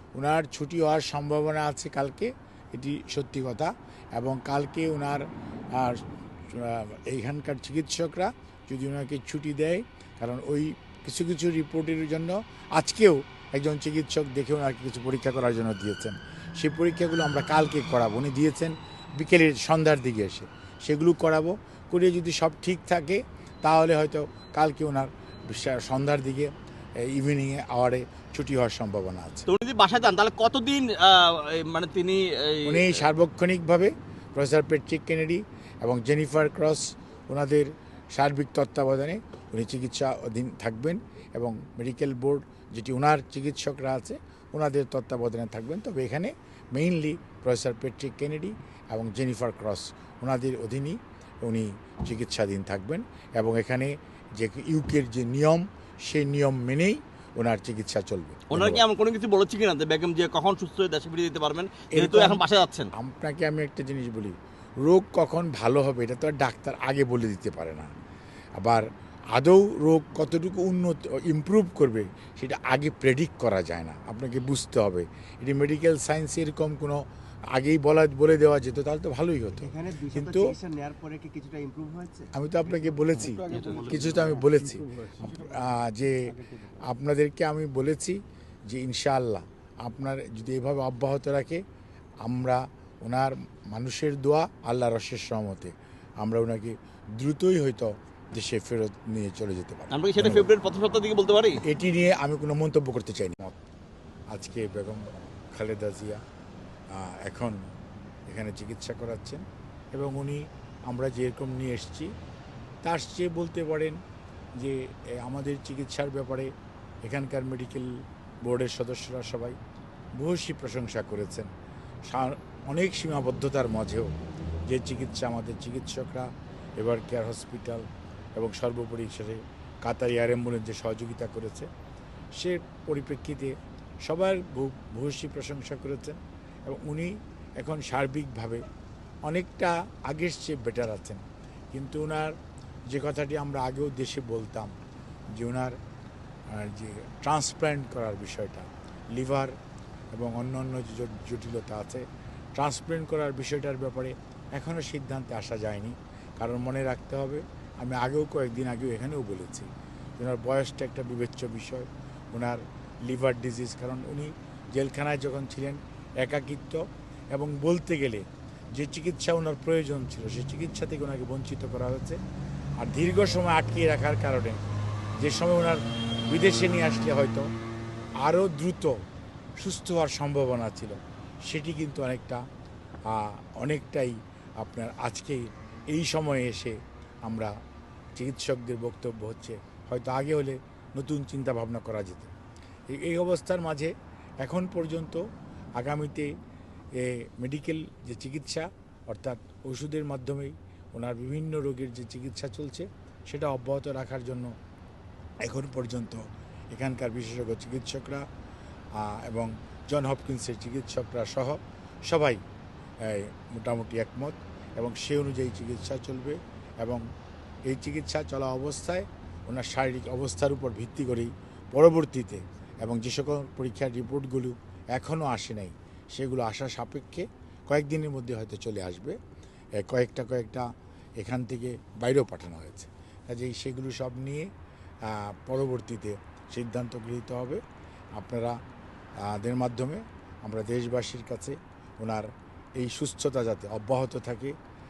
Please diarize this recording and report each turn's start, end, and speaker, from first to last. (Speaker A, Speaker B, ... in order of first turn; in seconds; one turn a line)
Speaker A: 0.1-29.5
Speaker B: 29.5-33.0
Speaker A: 32.6-58.9
Speaker B: 58.5-62.9
Speaker A: 61.9-62.4
Speaker A: 62.9-67.9
Speaker A: 68.6-80.5
Speaker C: 79.6-83.0
Speaker A: 82.3-91.6
Speaker C: 83.5-84.3
Speaker B: 83.6-84.0
Speaker A: 92.2-100.5
Speaker B: 99.9-101.6
Speaker A: 101.6-103.6
Speaker A: 104.3-106.2
Speaker A: 106.9-107.7
Speaker A: 108.3-112.1
Speaker A: 112.8-114.0
Speaker A: 114.6-116.5
Speaker A: 117.0-119.6
Speaker A: 120.2-121.5
Speaker A: 122.1-124.1
Speaker A: 124.7-127.8
Speaker A: 128.4-131.7
Speaker A: 132.4-138.6
Speaker A: 139.3-142.3
Speaker A: 142.9-144.7
Speaker A: 145.3-145.8
Speaker A: 146.5-149.6
Speaker A: 150.1-172.2
Speaker A: 172.8-177.5
Speaker A: 178.2-179.0
Speaker A: 179.6-182.4
Speaker A: 183.1-187.5
Speaker A: 188.2-192.3
Speaker A: 192.9-195.3
Speaker A: 195.8-196.3
Speaker A: 196.9-204.5
Speaker A: 205.4-208.3
Speaker A: 208.9-212.4
Speaker A: 213.0-217.0
Speaker A: 217.7-229.2
Speaker A: 229.8-230.7
Speaker A: 231.2-234.5
Speaker A: 235.0-237.6
Speaker A: 238.2-238.6
Speaker A: 239.2-244.6